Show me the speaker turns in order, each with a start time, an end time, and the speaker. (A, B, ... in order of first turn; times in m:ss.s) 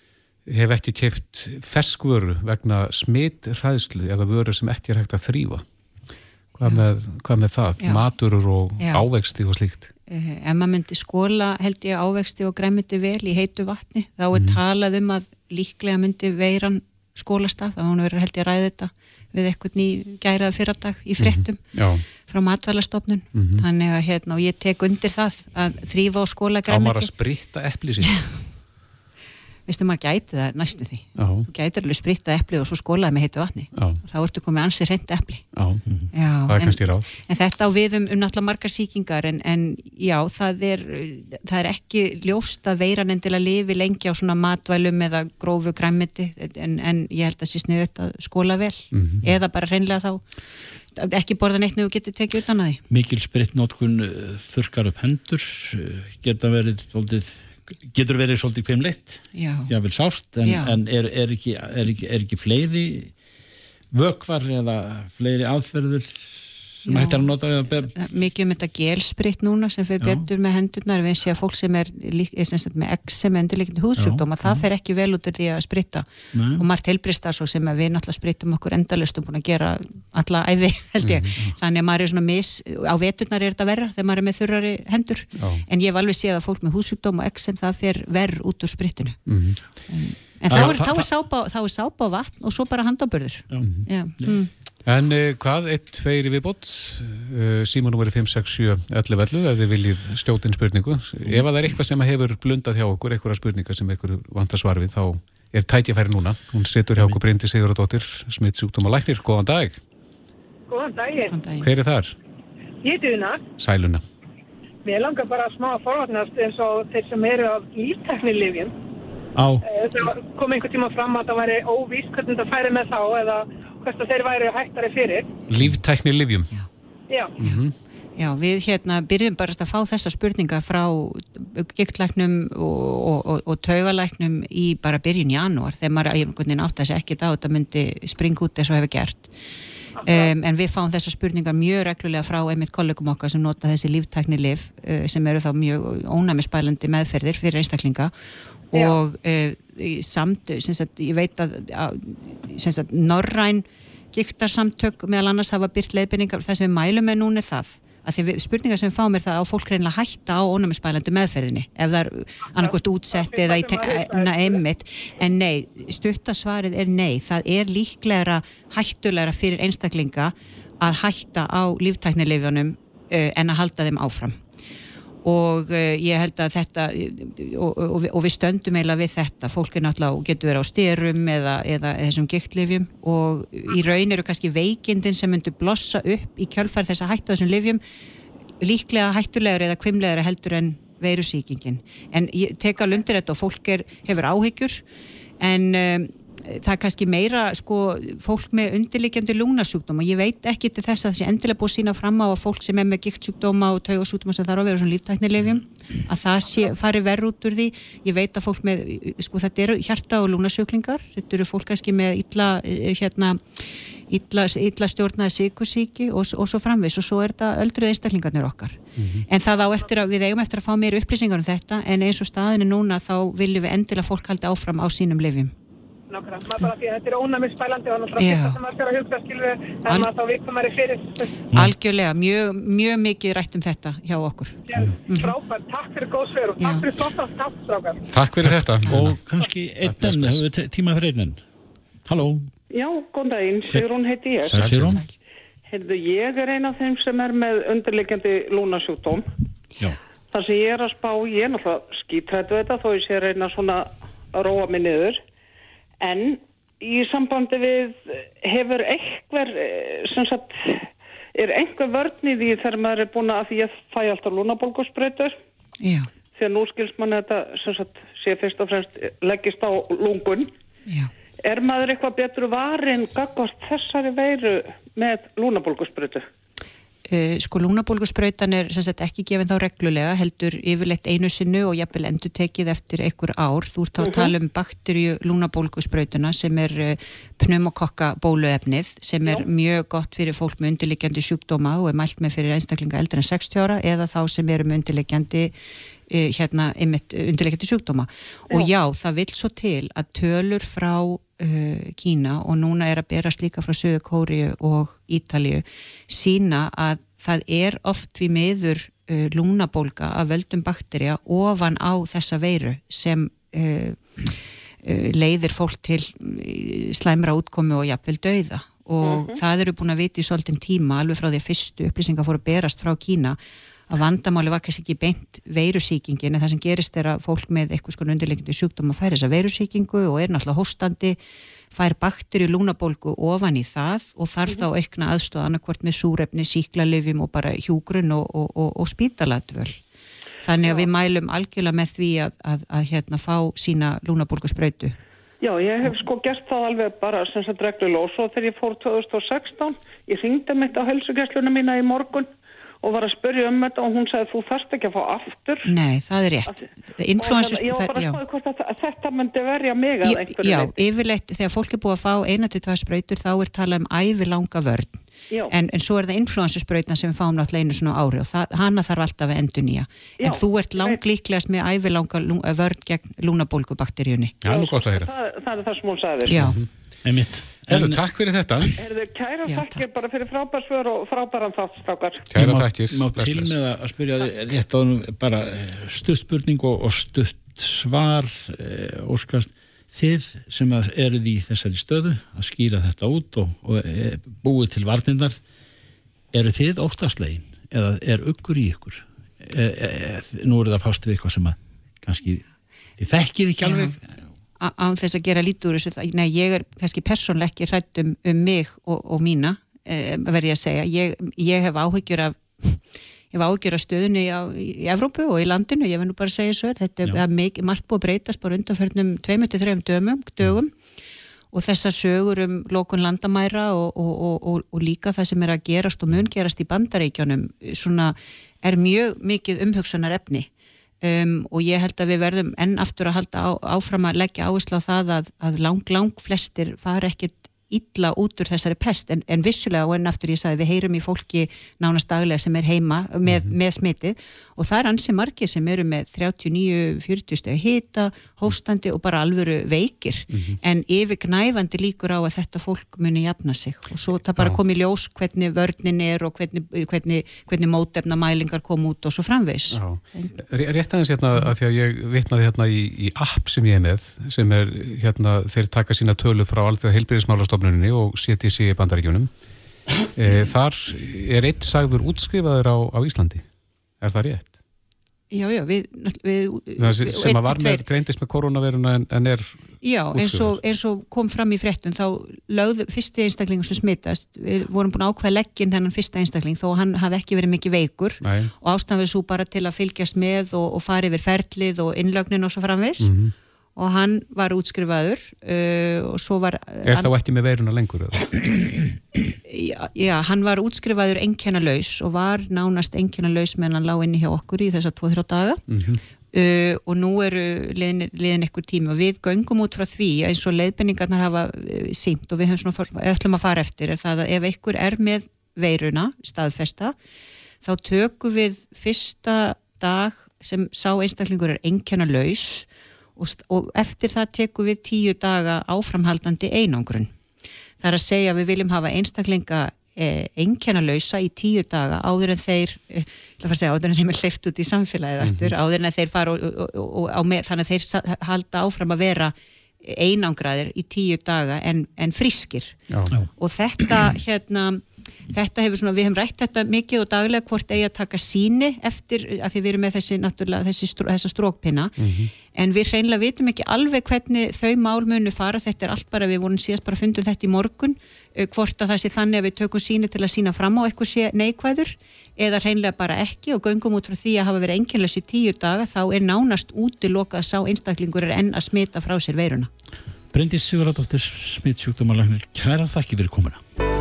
0:00.5-0:05.6 A
0:06.5-0:09.9 A
0:07.8-0:08.0 B
0:08.8-0:09.0 B
0:10.1-0:27.1 B
0:14.3-0:14.6 A
0:21.2-0:22.0 A
0:23.3-0:23.6 A
0:26.7-0:28.1 A
0:28.0-0:28.4 B
0:29.7-0:35.4 B
0:31.2-0:31.5 A
0:33.7-0:34.0 A
0:35.5-0:35.8 A
0:36.1-0:50.2 B
0:36.5-0:37.1 A
0:48.9-0:49.2 A
0:50.9-0:52.8 B
0:52.9-1:03.1 C
0:59.3-0:59.7 B
1:00.4-1:00.8 B
1:03.9-1:07.9 C
1:06.8-1:07.3 B
1:07.9-1:29.2 B
1:14.0-1:14.6 C
1:16.3-1:16.6 C
1:21.0-1:21.3 A
1:25.4-1:25.6 A
1:29.3-1:29.6 A
1:29.9-1:34.5 B
1:30.5-1:30.9 A
1:30.5-1:31.0 C
1:33.6-1:33.9 A
1:34.8-1:49.8 A
1:50.7-1:51.4 D
1:51.3-1:51.7 B
1:51.6-1:52.1 A
1:52.8-1:53.4 D
1:53.6-1:54.0 A
1:54.8-1:58.7 D
1:59.3-1:59.6 C
1:59.6-2:05.3 D
2:05.5-2:06.5 A
2:07.1-2:07.4 D
2:07.4-2:07.7 A
2:08.2-2:19.3 B
2:20.0-2:20.3 D
2:20.0-2:28.1 B
2:28.7-2:54.4 B
2:42.5-2:44.6 D
2:55.2-3:07.8 B
3:08.6-3:14.8 B
3:15.4-3:45.5 B
3:39.0-3:39.2 A
3:46.1-3:51.4 D
3:48.2-3:48.6 B
3:51.5-3:55.4 B
3:54.7-3:58.0 D
3:56.6-3:56.9 B
3:58.1-3:59.2 A
3:58.4-4:01.4 C
3:59.8-4:00.4 A
4:02.0-4:02.5 C
4:02.7-4:04.7 E
4:04.5-4:05.0 C
4:04.5-4:05.0 A
4:05.7-4:09.2 E
4:10.3-4:15.2 E
4:16.0-4:25.3 E
4:25.8-4:26.1 B
4:26.3-4:30.5 E
4:31.4-4:36.2 E
4:37.1-4:55.5 B
4:56.1-5:14.0 B
5:14.8-5:23.4 B
5:19.1-5:19.4 E
5:23.9-5:31.2 B
5:31.7-5:39.8 B
5:40.4-5:44.9 B
5:45.4-5:52.3 E
5:52.8-5:55.7 E
5:55.6-5:58.2 B
5:57.2-6:00.7 E
6:00.0-6:14.4 B
6:10.2-6:11.0 E
6:14.4-6:15.1 A
6:14.4-6:16.4 E
6:16.3-6:16.6 B
6:16.3-6:16.7 A
6:17.0-6:18.0 C
6:17.7-6:18.7 A
6:18.8-6:22.3 E
6:19.5-6:19.7 B
6:22.3-6:23.5 A
6:22.3-6:35.4 C
6:36.3-6:42.4 C
6:43.0-6:44.1 C
6:43.6-6:43.9 B
6:44.6-6:52.8 B
6:53.3-7:00.7 B
7:01.5-7:10.5 B
7:11.0-7:40.3 B
7:23.3-7:23.5 A
7:30.3-7:30.6 A
7:39.7-7:49.3 A
7:50.1-7:53.4 A
7:54.0-7:54.5 A
7:55.3-7:57.8 B
7:56.8-8:00.6 A
7:59.8-8:13.1 B
8:08.2-8:08.5 A
8:13.0-8:13.3 A
8:13.8-8:17.1 B
8:16.8-8:18.5 A
8:19.5-8:25.6 B
8:25.7-8:26.0 A
8:26.3-8:36.9 B
8:37.6-8:47.1 B
8:47.8-9:02.8 B
8:55.2-8:55.5 A
9:02.9-9:03.2 A
9:03.4-9:12.0 B
9:12.0-9:12.3 A
9:12.5-9:29.7 B
9:30.3-9:33.6 C